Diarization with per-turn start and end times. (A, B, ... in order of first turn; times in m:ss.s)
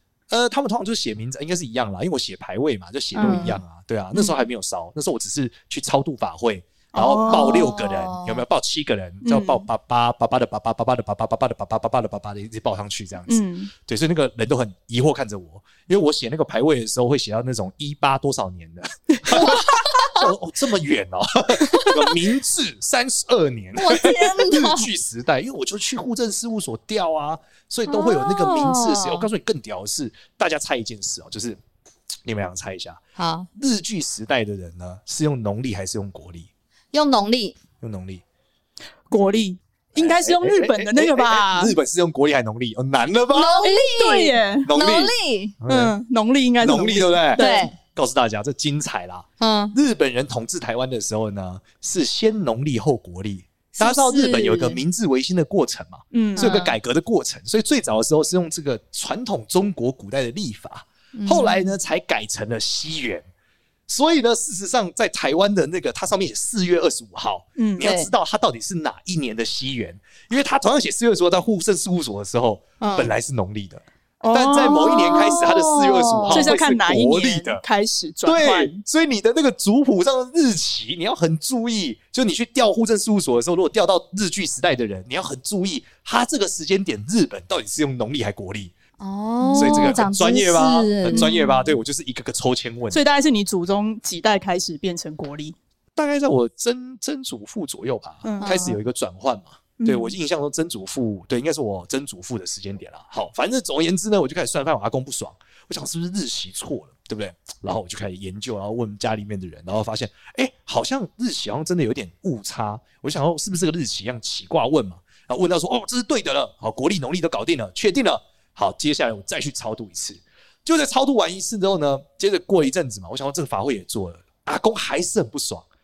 0:00.3-0:31.6 A
0:03.2-0:03.6 B
0:03.2-0:03.6 C
0:06.9-0:07.7 B
0:07.2-0:08.4 C
0:09.2-0:09.6 B
0:13.3-0:13.7 B
0:19.3-0:20.3 C
0:23.8-0:24.9 C
0:27.9-0:29.3 C
0:32.2-0:33.0 A
0:33.2-0:33.5 C
0:33.6-0:36.5 A
0:36.9-0:37.6 C
0:37.8-0:38.2 A
0:39.1-0:41.7 B
0:40.0-0:43.7 A
0:43.3-0:45.5 C
0:43.6-0:44.7 B
0:44.6-0:45.9 A
0:45.7-0:47.7 B
0:46.6-1:03.2 A
0:47.4-0:47.7 C
0:49.4-0:49.7 C
0:53.8-0:54.8 C
0:56.1-0:56.5 B
0:56.4-0:56.7 C
1:01.1-1:01.7 C
1:03.9-1:17.6 A
1:07.6-1:07.9 B
1:07.8-1:08.1 C
1:12.8-1:13.1 C
1:14.2-1:15.4 B
1:14.5-1:16.5 C
1:16.3-1:18.8 B
1:18.2-1:28.7 A
1:29.0-1:31.7 C
1:29.4-1:30.0 B
1:29.5-1:33.0 A
1:31.1-1:31.4 B
1:32.9-1:35.6 B
1:36.0-2:05.6 A
1:38.2-1:38.7 B
1:38.4-1:38.8 C
1:39.8-1:40.1 B